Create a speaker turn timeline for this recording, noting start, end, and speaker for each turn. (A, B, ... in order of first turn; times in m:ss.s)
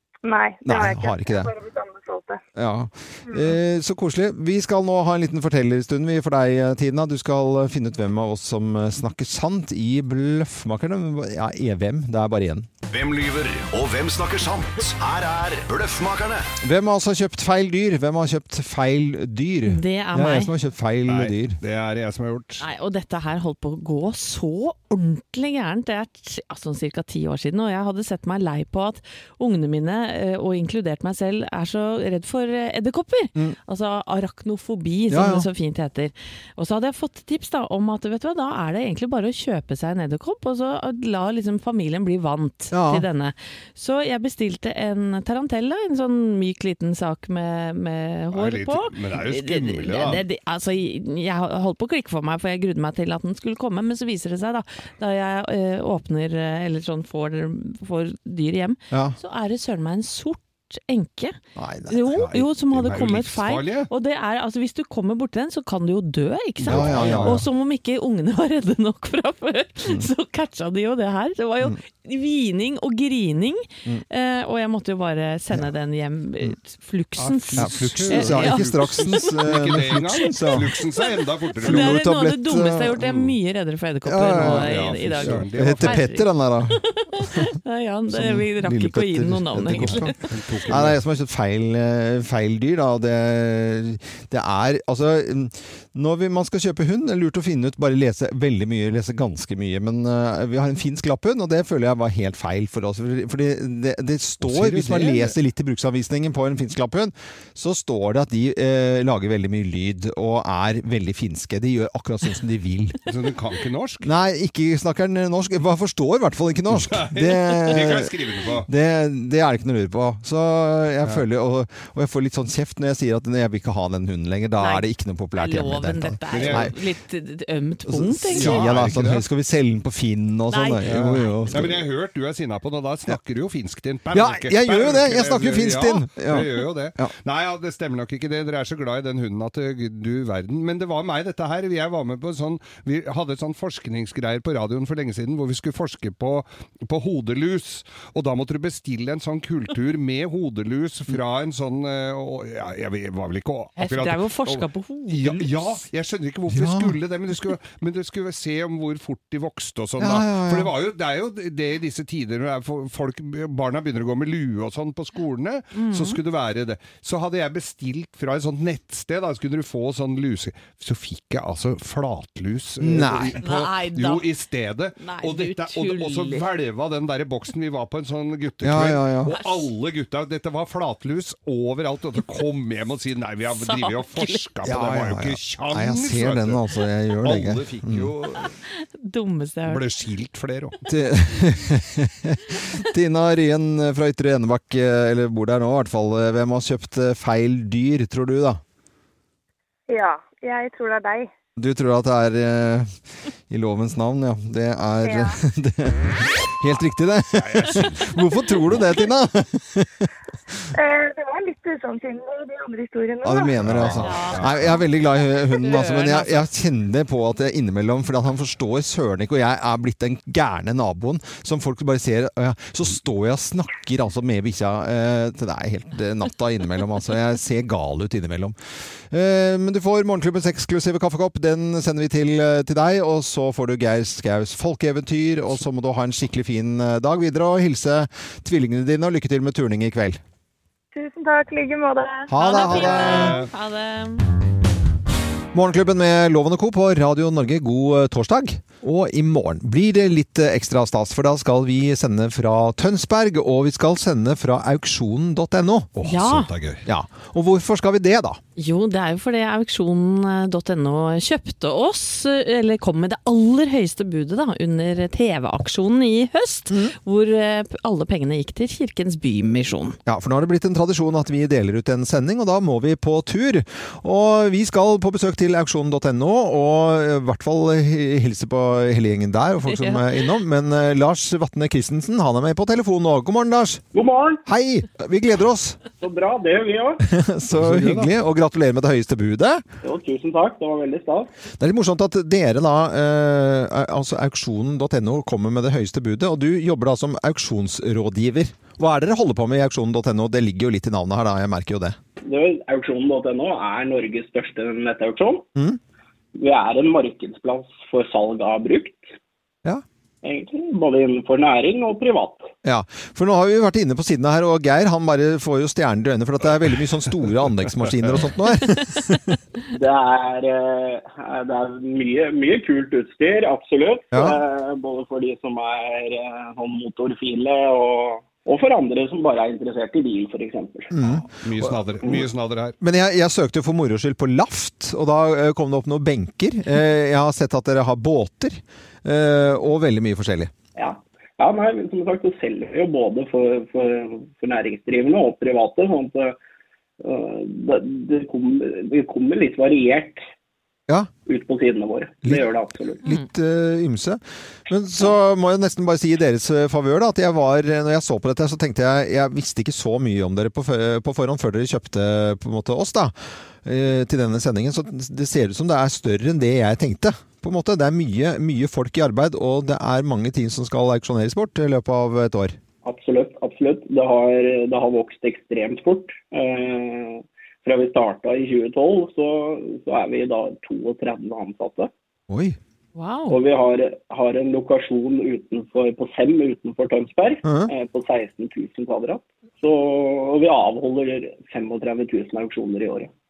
0:00.2-0:02.4 A
0:00.6-0:01.5 B
0:02.5-0:12.7 B
0:12.9-0:16.5 C
0:16.6-0:21.6 B
0:19.6-0:20.5 D
0:21.1-0:22.6 E
0:22.6-1:30.3 D
0:35.1-0:35.5 B
0:42.7-0:43.0 B
0:48.3-0:50.2 E
0:58.9-0:59.2 B
1:01.6-1:02.0 B
1:02.1-1:03.9 E
1:06.6-1:07.4 B
1:06.6-1:07.4 E
1:17.2-1:21.9 E
1:17.5-1:20.7 B
1:21.6-1:23.0 B
1:23.0-1:23.4 E
1:24.0-1:27.5 B
1:24.3-1:26.0 E
1:28.1-1:53.0 B
1:29.7-1:31.0 E
1:44.4-1:45.3 E
1:53.0-1:54.1 E
1:54.0-1:58.1 B
1:56.7-1:58.7 E
1:58.6-2:06.7 B
2:04.6-2:08.8 D
2:06.3-2:06.7 E
2:07.8-2:11.8 B
2:08.3-2:09.2 E
2:10.5-2:11.6 D
2:10.8-3:06.6 E
2:14.1-2:17.1 B
2:33.8-2:35.7 D
2:36.5-2:36.9 B
2:40.0-2:40.7 B
2:45.7-2:46.2 D
2:52.8-2:53.4 B
2:53.4-2:54.3 D
2:55.0-2:56.4 D
2:58.6-2:59.3 B
2:59.3-2:59.7 D
3:03.5-3:04.4 D
3:04.6-3:08.1 B
3:07.2-3:08.5 E
3:08.4-3:09.9 D
3:09.6-3:10.8 E
3:10.8-3:18.6 B
3:19.9-3:21.3 A
3:21.6-3:30.1 B
3:25.0-3:25.4 A
3:27.4-3:28.0 E
3:30.7-3:33.7 A
3:33.2-3:48.6 B
3:33.6-3:34.8 E
3:33.8-3:34.9 D
3:35.5-3:36.4 D
3:49.1-4:00.2 B
4:00.9-4:02.3 A
4:02.3-4:03.4 B
4:02.3-4:04.2 D
4:02.5-4:03.5 E
4:05.5-4:16.0 B
4:16.0-4:16.8 E
4:16.0-4:16.5 D
4:16.8-4:18.4 B
4:18.6-4:30.0 D
4:26.7-4:26.9 B
4:30.0-4:43.8 B
4:39.6-4:40.3 D
4:43.9-4:44.4 F
4:44.4-4:45.8 B
4:46.0-4:47.0 F
4:47.0-4:49.6 B
4:47.5-4:48.1 E
4:49.8-4:51.3 F
4:51.6-5:02.0 B
5:02.2-5:05.4 F
5:06.3-5:09.0 F
5:10.2-5:12.5 F
5:12.6-5:19.3 B
5:19.7-5:31.0 F
5:24.1-5:24.4 B
5:30.9-5:32.2 B
5:31.0-5:32.8 E
5:32.8-5:40.5 B
5:40.7-5:46.4 F
5:47.0-5:50.2 F
5:51.2-5:53.0 F
5:53.0-6:12.6 B
6:12.8-6:21.9 F
6:22.3-6:22.6 B
6:23.0-6:23.4 D
6:23.3-6:33.1 F
6:27.4-6:27.7 B